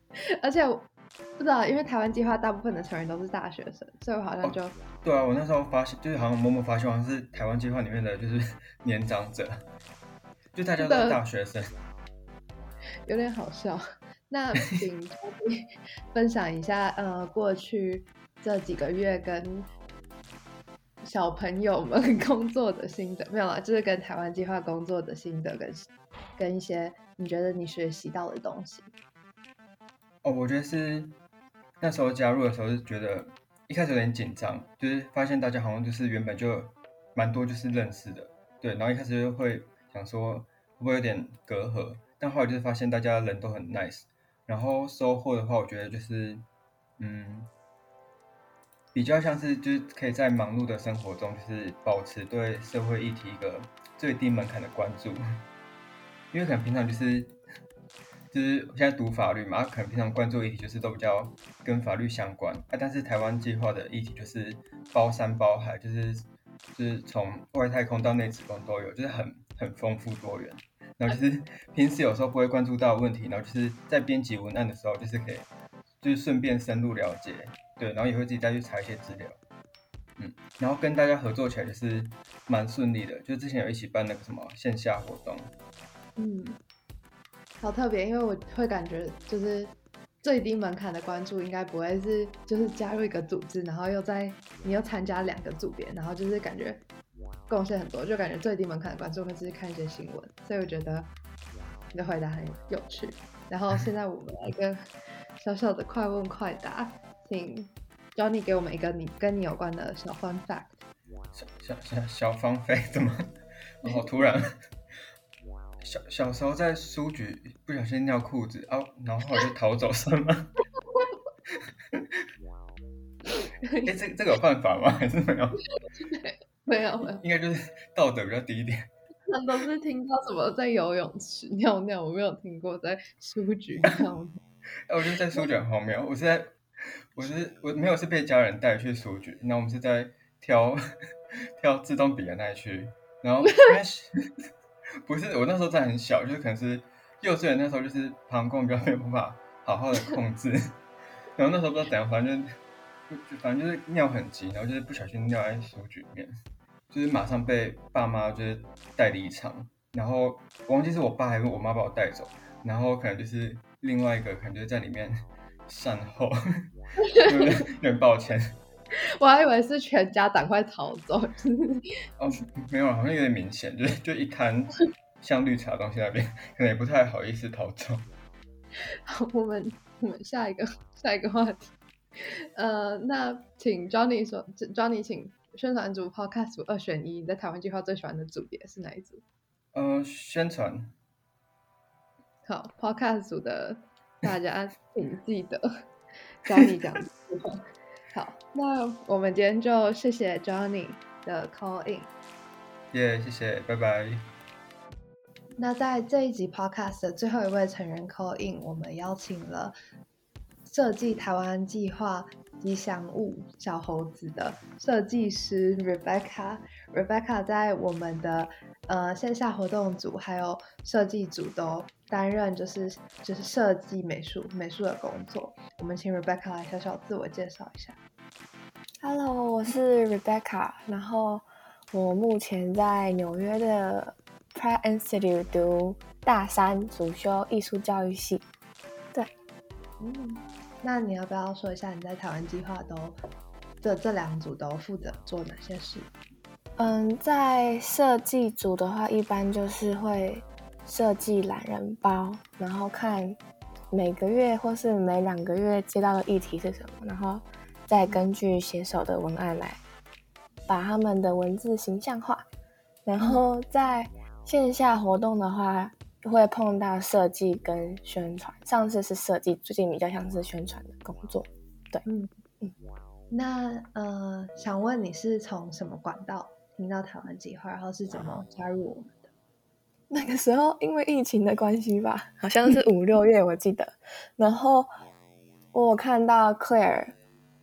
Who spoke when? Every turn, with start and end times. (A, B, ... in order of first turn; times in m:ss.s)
0:00.2-0:04.7 A
0:04.4-0:09.6 B
0:10.6-0:11.7 B
0:10.8-0:11.2 A
0:13.1-0:19.7 A
0:21.0-0:28.9 A
0:30.2-0:31.2 B
0:31.8-0:46.5 B
0:47.0-0:47.5 B
0:48.9-0:55.2 B
0:56.3-0:57.4 B
0:58.3-1:15.5 B
1:16.0-1:19.4 B
1:20.2-1:25.5 B
1:26.2-1:26.6 A
1:27.6-1:36.8 A
1:37.5-1:41.1 A
1:41.9-1:44.8 A
1:45.4-1:50.8 A
1:51.4-1:54.6 B
1:55.8-2:00.6 B
2:03.8-2:05.7 B
2:06.0-2:07.2 A
2:07.2-2:08.9 B
2:09.3-2:14.4 A
2:14.9-2:16.5 B
2:17.1-2:20.8 B
2:21.6-2:24.1 B
2:25.0-2:30.8 B
2:31.4-2:32.5 B
2:33.1-2:36.3 B
2:36.9-2:46.4 B
2:47.2-2:48.6 B
2:49.2-2:51.9 A
2:52.2-2:58.1 B
2:59.1-3:09.2 A
3:09.7-3:10.9 B
3:12.4-3:15.6 A
3:16.4-3:22.1 A
3:22.9-3:24.3 B
3:25.6-3:29.8 A
3:30.7-3:48.0 A
3:49.0-3:58.4 C
4:00.0-4:03.2 A
4:03.8-4:06.1 A
4:06.8-4:13.4 C
4:13.9-4:19.8 C
4:20.7-4:22.4 C
4:23.0-4:32.0 C
4:33.3-4:39.3 A
4:40.1-4:44.9 C
4:45.7-4:47.2 C